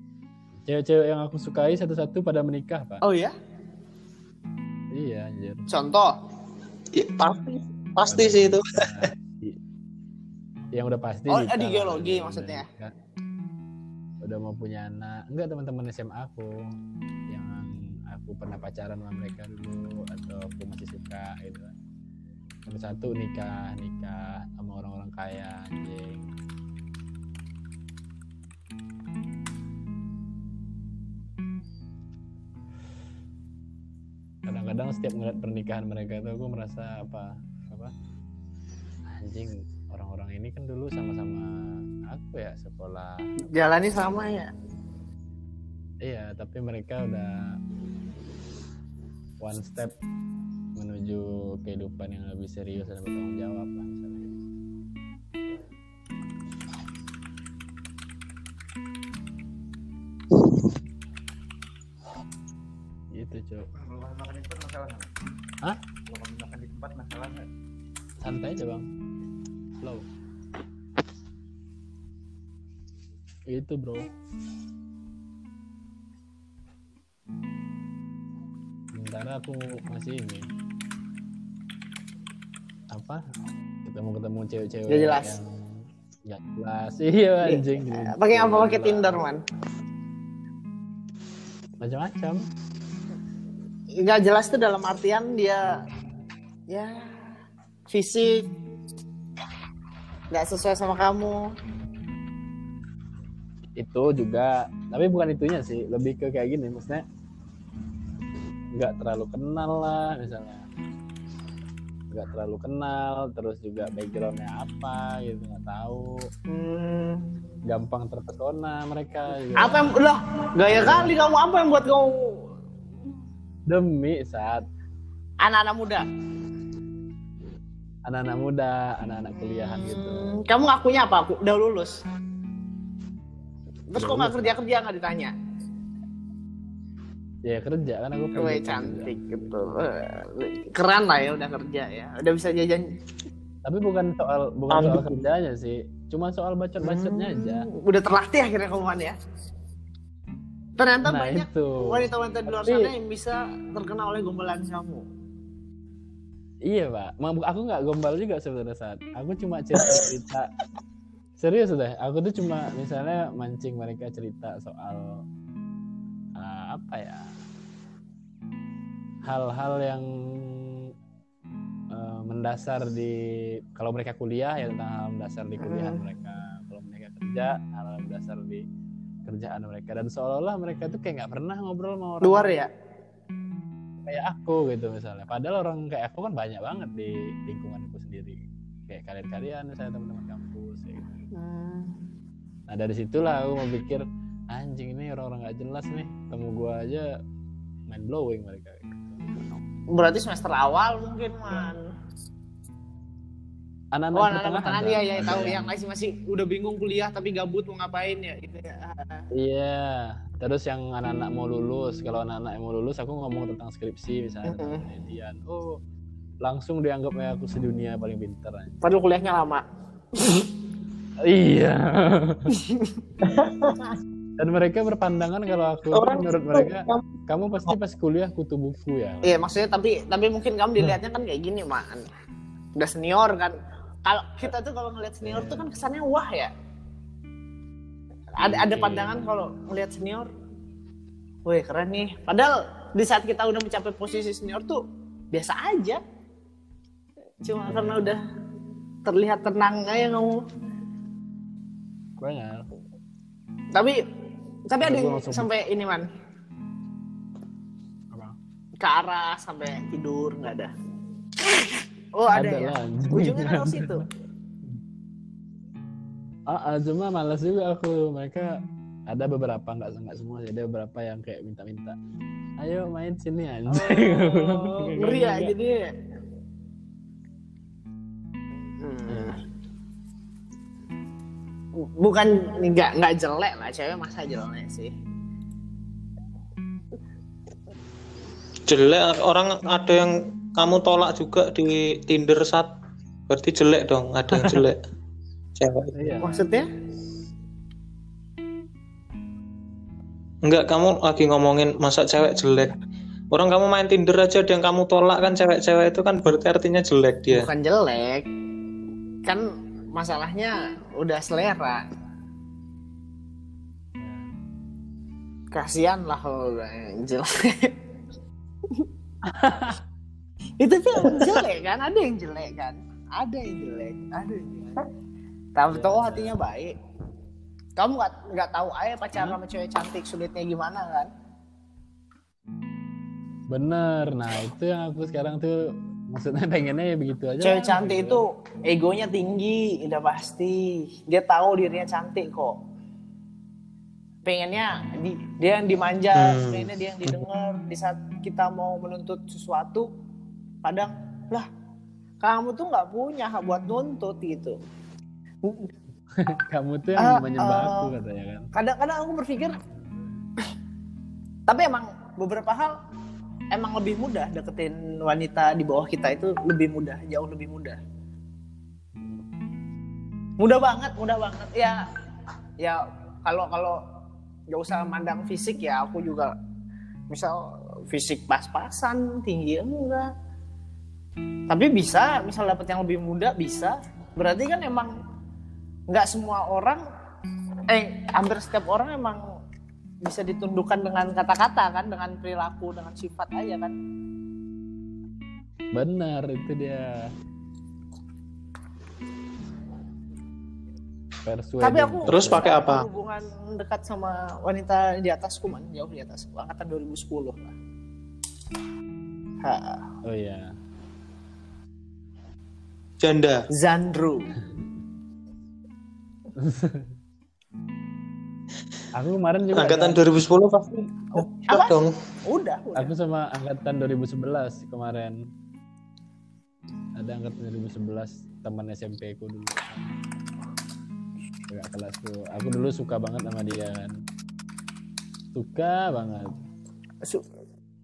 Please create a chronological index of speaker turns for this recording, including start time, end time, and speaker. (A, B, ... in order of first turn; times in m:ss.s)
0:00.6-0:03.0 A
0:03.0-0:03.3 B
0:04.9-0:05.6 A
0:05.7-0:06.1 B
0:06.9-0:08.8 C
0:08.0-0:09.6 A
0:10.7-0:12.9 A
0:11.3-0:12.6 B
0:14.2-0:16.5 A
0:17.3-0:21.7 A
0:22.7-0:26.3 A
0:34.4-0:37.9 A
0:39.1-0:41.5 A
0:42.0-0:43.2 A
0:43.5-0:44.5 B
0:46.0-0:47.3 A
0:49.4-0:49.9 A
0:50.8-0:54.4 A
1:03.1-1:03.6 A
1:03.9-1:05.1 D
1:06.1-1:07.5 D
1:08.2-1:08.8 A
1:13.5-1:14.1 A
1:18.9-1:20.5 A
1:22.9-1:23.2 A
1:23.8-1:29.2 A
1:24.9-1:25.4 B
1:27.4-1:29.4 B
1:31.8-1:32.4 A
1:34.0-1:35.7 B
1:36.7-1:37.0 B
1:37.9-1:38.4 B
1:40.3-1:41.4 B
1:43.8-1:47.0 A
1:48.8-1:50.6 A
1:52.1-1:56.0 A
1:56.5-1:57.2 B
1:57.7-1:59.9 A
1:59.5-2:02.1 B
2:00.7-2:01.2 A
2:03.7-2:04.6 A
2:05.4-2:06.0 B
2:08.1-2:10.3 A
2:09.4-2:11.9 B
2:13.9-2:15.3 B
2:14.0-2:14.6 A
2:17.4-2:19.2 A
2:18.4-2:22.9 B
2:23.6-2:27.7 A
2:24.7-2:25.2 C
2:26.8-2:29.1 B
2:30.8-2:35.0 B
2:31.0-2:32.9 A
2:36.7-2:40.5 A
2:41.4-2:45.0 A
2:46.4-2:47.3 A
2:49.2-2:50.7 A
2:51.9-2:53.1 A
2:53.7-2:58.6 A
2:55.6-2:56.0 B
2:59.2-3:02.6 A
3:02.2-3:02.7 B
3:04.1-3:11.2 A
3:11.4-3:11.9 B
3:12.7-3:17.0 A
3:17.9-3:19.2 A
3:19.9-3:21.8 B
3:23.9-3:25.7 A
3:24.1-3:29.2 B
3:29.3-3:35.8 A
3:34.5-3:34.8 B
3:36.4-3:39.0 A
3:38.8-3:39.6 B
3:41.3-3:42.5 A
3:42.7-3:43.0 B
3:43.2-3:43.8 C
3:44.4-3:49.4 A
3:45.9-3:47.0 C
3:49.2-3:52.0 B
3:52.8-3:53.5 B
3:54.0-3:56.5 B
3:55.2-3:55.7 A
3:58.4-4:00.3 B
3:58.4-3:59.2 A
4:01.5-4:04.8 B
4:05.3-4:06.0 B
4:07.4-4:08.2 B
4:07.7-4:08.2 A
4:09.0-4:10.4 B
4:12.2-4:12.6 A
4:13.7-4:14.0 B
4:14.7-4:16.1 B
4:14.8-4:15.5 A
4:18.8-4:20.7 B
4:22.2-4:24.0 B
4:22.3-4:24.0 A
4:26.5-4:28.5 A
4:29.1-4:32.0 A
4:32.6-4:35.5 A
4:33.7-4:35.8 B
4:38.8-4:39.4 B
4:39.1-4:39.4 A
4:42.0-4:44.9 B
4:48.7-4:52.7 C
4:53.3-4:54.8 C
4:54.3-4:54.6 A
4:55.6-4:55.9 C
4:55.9-4:56.4 A
4:56.2-4:56.6 B
5:00.4-5:02.7 C
5:03.3-5:07.5 C
5:07.3-5:08.2 B
5:09.9-5:11.8 B
5:14.0-5:14.3 A
5:15.5-5:17.7 B
5:19.2-5:19.8 A
5:20.6-5:24.8 B
5:25.6-5:26.7 B
5:25.7-5:26.3 A
5:27.8-5:31.1 B
5:33.5-5:35.6 A
5:36.1-5:38.2 A
5:37.4-5:42.6 B
5:44.2-5:49.9 B
5:44.6-5:44.9 A
5:46.1-5:46.7 C
5:50.6-5:51.5 B
5:52.2-5:54.6 B
5:55.4-5:55.7 B
5:56.2-5:58.5 A
5:57.0-5:57.9 B
5:58.5-5:59.6 B
5:59.7-6:00.1 A
6:01.5-6:02.7 B
6:03.5-6:07.8 B
6:09.0-6:09.2 A
6:10.4-6:11.8 B
6:12.6-6:13.8 B
6:14.5-6:16.3 B
6:17.1-6:20.1 B
6:21.5-6:24.9 B
6:25.9-6:26.8 B
6:27.7-6:29.2 B
6:30.0-6:33.7 B
6:35.7-6:37.1 A
6:41.2-6:42.5 A
6:41.6-6:47.5 B
6:42.1-6:42.9 C
6:49.4-6:49.8 B
6:50.0-6:50.5 A
6:53.0-6:53.4 C
6:53.5-6:54.3 B
6:56.4-6:56.9 A
6:59.0-7:00.0 A
6:59.5-7:01.9 C
7:01.2-7:02.9 B
7:02.8-7:05.2 A
7:07.0-7:09.9 A
7:11.5-7:13.9 A
7:15.3-7:16.3 A